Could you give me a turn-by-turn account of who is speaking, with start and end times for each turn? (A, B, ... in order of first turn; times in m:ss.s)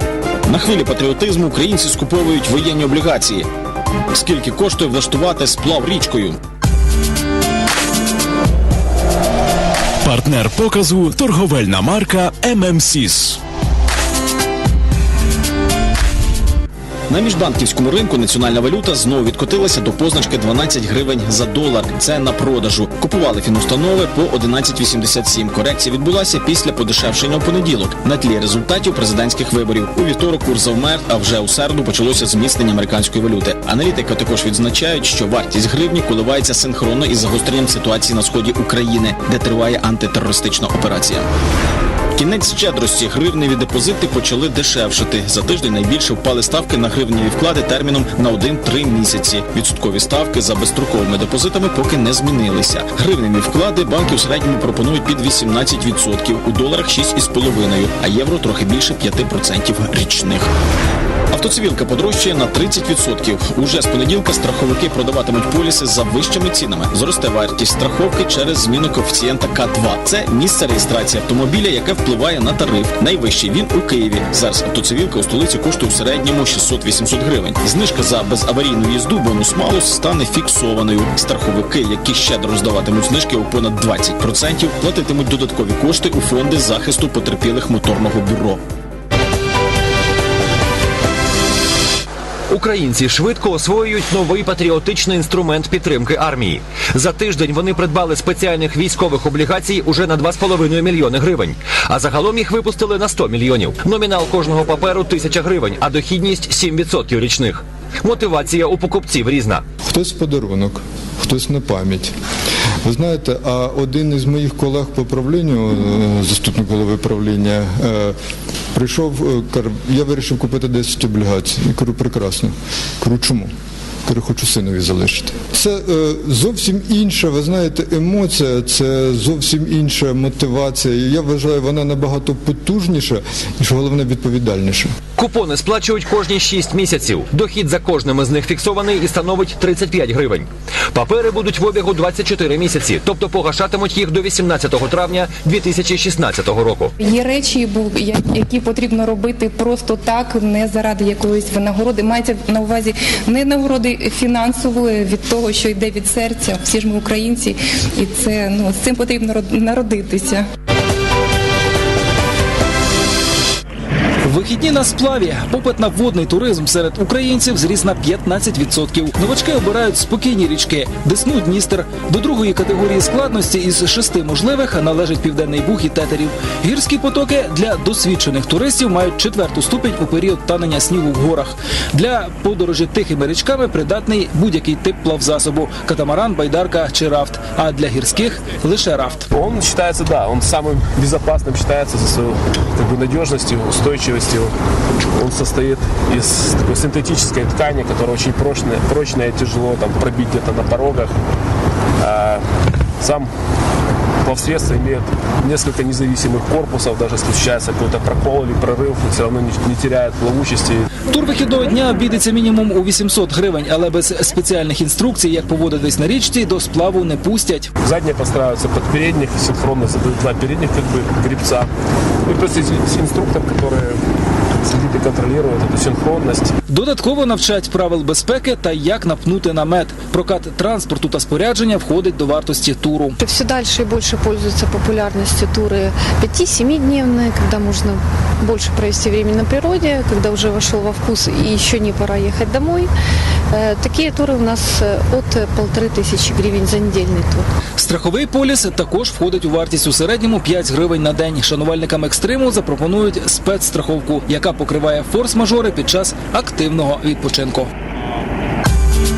0:00.5-0:03.5 A
0:04.1-0:06.4 A
0:10.0-0:13.4 B
0:17.1-0:41.3 A
0:42.2-1:00.5 A
1:01.3-1:28.6 A
1:32.5-1:49.6 C
1:49.8-1:52.1 D
1:52.8-1:58.2 D
1:58.8-2:03.5 D
2:04.1-2:14.9 D
2:15.2-2:26.9 C
2:27.0-2:40.5 E
2:44.2-3:09.3 F
3:09.3-3:14.6 G
3:15.2-3:21.2 G
3:22.0-3:22.4 G
3:23.0-3:23.3 G
3:24.2-3:30.9 G
3:31.1-3:37.7 F
3:37.8-3:41.7 G
3:42.3-3:44.0 G
3:44.6-3:46.5 G
3:46.7-3:53.2 F
3:53.2-4:02.9 H
4:03.5-4:07.5 H
4:07.8-4:17.7 F